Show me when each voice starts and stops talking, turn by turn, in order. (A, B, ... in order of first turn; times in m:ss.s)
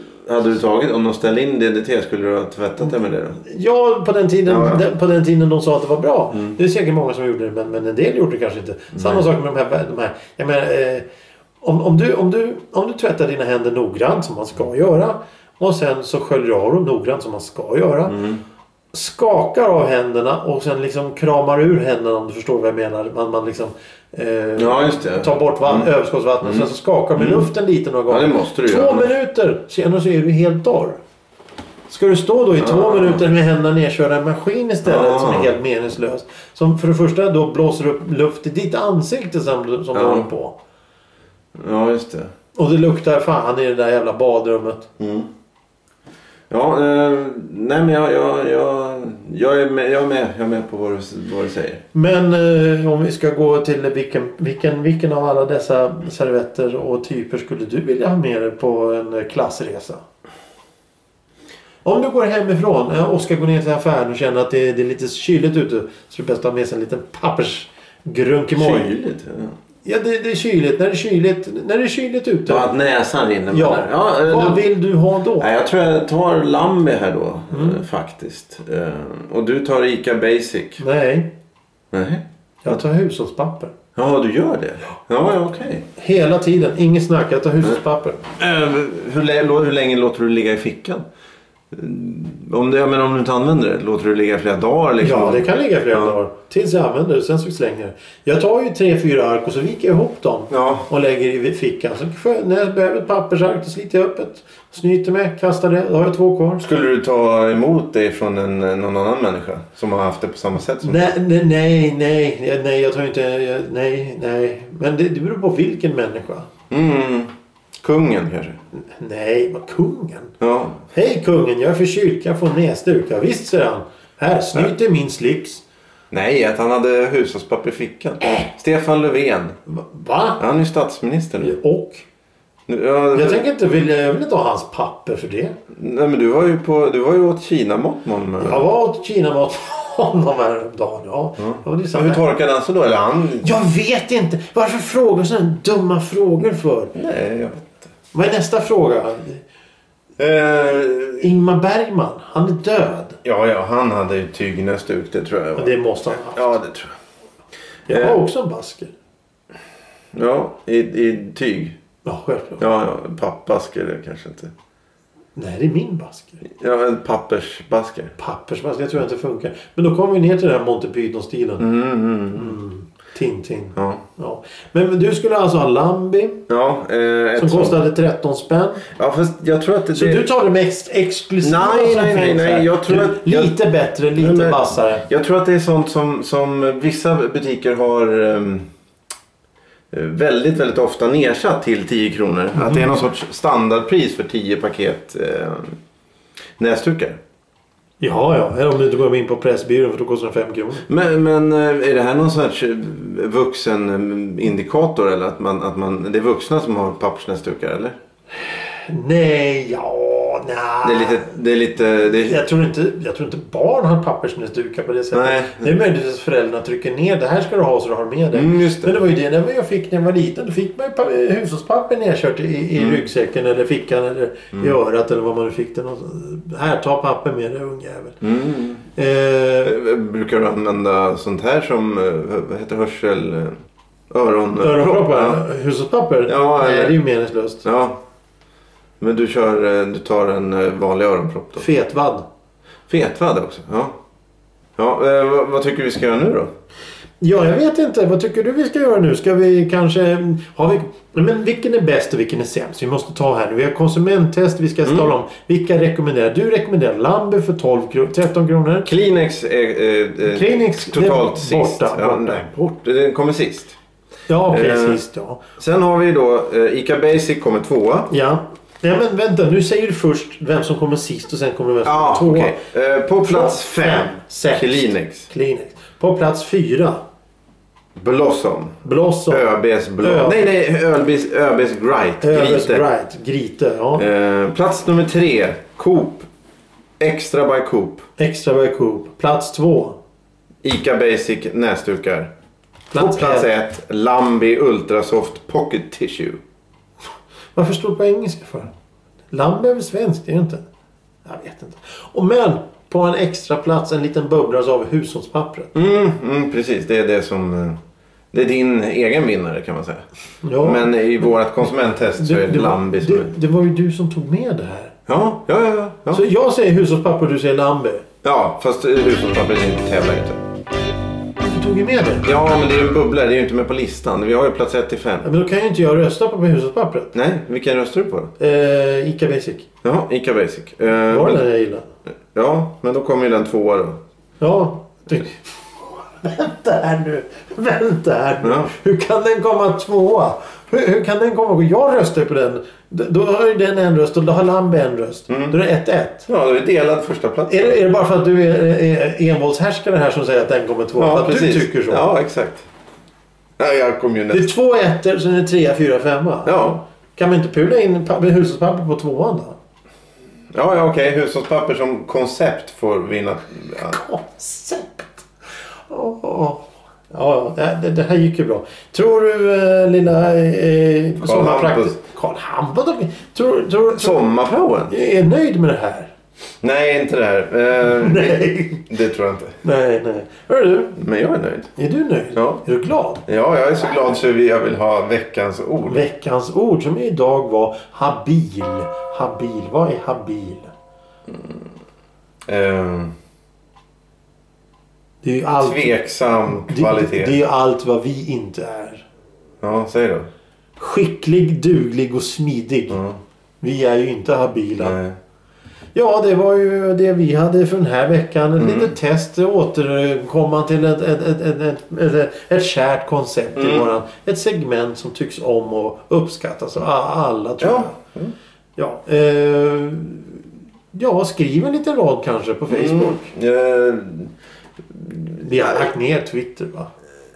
0:00.2-0:03.4 A
0:03.4-0:11.0 B
0:04.5-0:04.8 A
0:08.9-0:09.2 A
0:11.6-0:18.2 B
0:18.1-0:18.4 A
0:18.9-0:31.0 B
0:24.6-0:25.9 A
0:26.4-0:27.5 A
0:28.1-0:29.1 A
0:31.9-0:40.6 B
0:32.6-0:33.2 A
0:34.8-0:35.5 A
0:39.9-0:40.3 A
0:41.6-0:42.3 A
0:42.5-0:44.9 B
0:45.0-0:45.3 A
0:46.5-0:51.8 A
0:51.9-1:00.0 B
1:01.8-1:08.9 B
1:08.6-1:09.5 A
1:09.8-1:12.7 B
1:12.5-1:14.7 A
1:13.5-1:15.5 B
1:15.4-1:20.8 A
1:17.5-1:17.8 B
1:20.8-1:21.3 B
1:21.9-1:22.2 A
1:22.6-1:23.7 B
1:23.9-1:25.9 A
1:26.0-1:28.2 B
1:28.4-1:31.0 A
1:31.7-1:36.1 A
1:35.0-1:46.6 B
1:40.5-1:40.9 A
1:46.6-1:51.1 A
1:50.8-1:56.5 B
1:56.7-1:58.6 A
1:58.7-2:00.3 B
2:00.4-2:00.8 A
2:00.9-2:05.6 B
2:06.1-2:09.6 A
2:09.7-2:10.4 B
2:10.4-2:11.6 A
2:11.4-2:12.0 B
2:12.7-2:13.4 A
2:13.1-2:15.6 B
2:15.7-2:18.6 A
2:18.4-2:22.2 B
2:21.4-2:23.5 A
2:23.4-2:26.9 B
2:26.9-2:27.8 A
2:28.1-2:29.4 B
2:30.2-2:31.3 A
2:31.2-2:33.2 B
2:33.2-2:36.9 A
2:35.6-2:36.6 B
2:37.9-2:38.2 A
2:37.9-2:38.9 B
2:40.1-2:41.8 A
2:42.0-2:42.6 B
2:42.6-2:44.5 A
2:45.4-2:46.4 B
2:46.6-2:48.1 A
2:48.2-2:51.6 B
2:51.6-2:52.6 A
2:52.4-2:56.4 B
2:53.8-2:54.0 A
2:56.5-2:57.8 A
2:57.4-2:58.8 B
2:58.9-3:00.3 A
2:59.9-3:05.0 B
3:01.4-3:03.6 A
3:04.1-3:08.7 A
3:09.9-3:15.8 A
3:12.5-3:12.9 B
3:16.6-3:17.2 A
3:18.0-3:20.9 B
3:20.9-3:28.0 A
3:28.5-3:31.3 B
3:30.8-3:32.4 A
3:32.2-3:48.2 B
3:35.1-3:35.8 A
3:38.3-3:38.9 A
3:42.8-3:43.0 A
3:48.2-3:48.8 A
3:49.0-3:49.7 B
3:49.6-3:53.6 A
3:54.1-3:55.4 A
3:54.6-3:57.6 B
3:56.3-3:57.0 A
3:57.6-3:58.0 A
3:59.0-4:01.6 A
4:01.6-4:02.2 B
4:02.9-4:04.0 A
4:04.8-4:06.5 A
4:07.2-4:18.9 B
4:14.8-4:15.1 A
4:18.8-4:23.8 A
4:20.2-4:22.5 B
4:24.3-4:25.4 B
4:24.5-4:25.0 A
4:25.6-4:28.1 A
4:28.1-4:32.6 B
4:31.8-4:35.3 A
4:33.2-4:37.0 B
4:38.0-4:42.8 A
4:38.8-4:39.4 B
4:40.0-4:40.5 B
4:42.2-4:44.0 B
4:44.0-4:46.3 A
4:47.0-4:48.0 A
4:48.2-4:50.0 B
4:50.6-4:52.3 A
4:52.9-4:53.5 B
4:53.0-4:56.4 A
4:57.5-4:58.7 B
4:59.3-5:00.6 B
5:01.2-5:05.7 B
5:05.7-5:07.8 A
5:08.3-5:10.0 A
5:10.4-5:10.9 B
5:10.6-5:13.3 A
5:12.2-5:14.9 B
5:15.1-5:16.2 A
5:16.1-5:18.0 B
5:18.2-5:20.4 A
5:21.4-5:22.2 B
5:22.2-5:25.3 A
5:25.2-5:27.1 B
5:27.1-5:28.3 A
5:28.4-5:29.7 B
5:29.8-5:31.4 A
5:31.1-5:31.8 B
5:32.3-5:34.0 A
5:34.4-5:35.4 B
5:36.0-5:46.3 B
5:38.4-5:38.7 A
5:45.3-5:45.6 A
5:46.3-5:47.8 A
5:47.5-5:52.0 B
5:51.0-5:52.6 A
5:53.6-5:54.5 A
5:54.3-5:59.6 B
5:56.4-5:56.8 A
6:00.5-6:04.0 A
6:03.7-6:05.2 B
6:05.9-6:14.2 B
6:11.2-6:12.0 A
6:13.9-6:14.9 A
6:14.9-6:16.1 B
6:16.6-6:19.6 A
6:18.0-6:18.9 B
6:19.6-6:20.9 B
6:21.0-6:21.7 A
6:21.8-6:23.2 B
6:22.4-6:22.6 A
6:23.3-6:26.0 A
6:25.9-6:30.7 B
6:31.3-6:31.6 A
6:32.4-6:33.1 A
6:35.2-6:35.9 B
6:35.6-6:37.3 A
6:36.5-6:39.0 B
6:39.6-6:40.3 A
6:40.8-6:43.0 B
6:42.9-6:43.2 A
6:43.6-6:45.0 B
6:44.8-6:45.2 A
6:45.9-6:57.9 B
6:48.6-6:48.9 A
6:53.6-6:53.9 A
6:57.6-6:58.3 A
6:58.8-7:00.4 B
7:00.9-7:03.3 B
7:02.7-7:04.3 A
7:04.9-7:05.9 A
7:05.4-7:06.9 B